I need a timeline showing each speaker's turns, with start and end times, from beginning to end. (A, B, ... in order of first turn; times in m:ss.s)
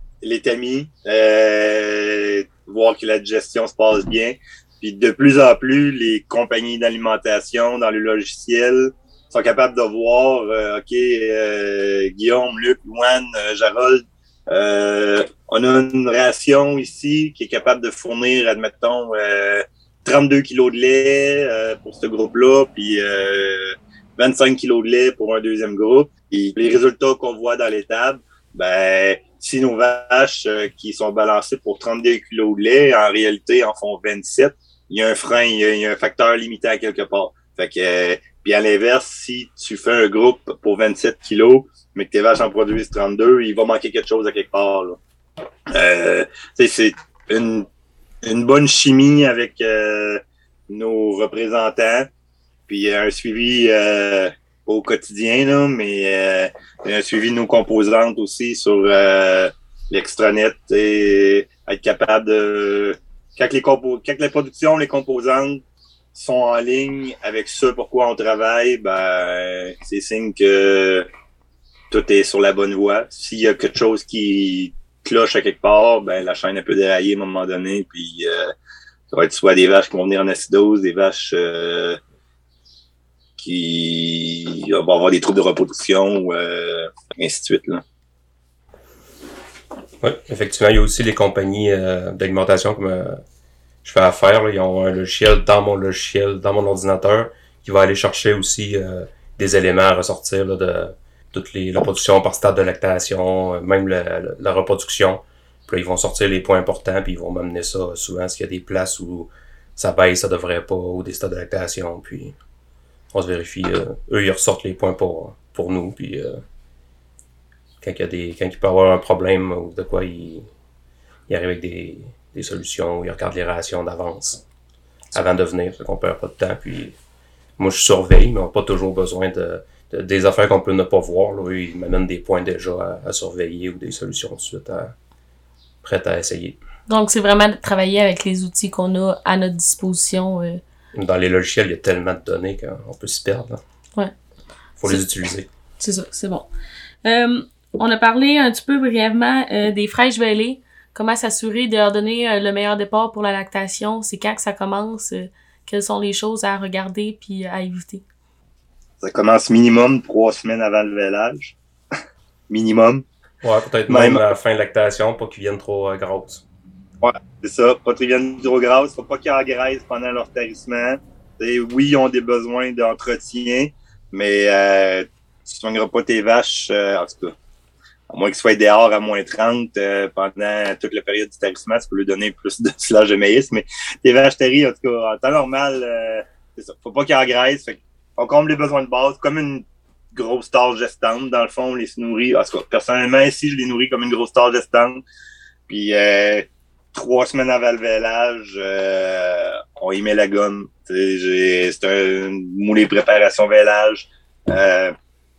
0:00.2-0:45.0 A
0:45.7-0:47.7 A
0:48.2-0:52.1 A
0:52.7-1:05.6 A
1:06.1-1:11.1 A
1:11.9-1:18.5 A
1:19.1-1:22.0 A
1:23.4-1:27.8 A
1:30.0-1:33.2 B
1:33.8-1:52.3 B
1:53.1-1:56.4 B
1:57.8-2:00.5 B
2:01.3-2:04.4 B
2:05.1-2:07.0 B
2:07.6-2:14.9 B
2:15.8-2:16.6 B
2:16.9-2:20.6 C
2:20.9-2:23.6 B
2:24.8-2:25.5 B
2:25.8-2:26.5 C
2:27.0-2:38.0 C
2:39.0-2:41.6 A
2:42.5-2:43.0 A
2:43.4-2:46.4 B
2:43.9-2:44.3 A
2:47.0-2:57.3 A
2:58.1-3:15.0 A
3:15.7-3:25.0 A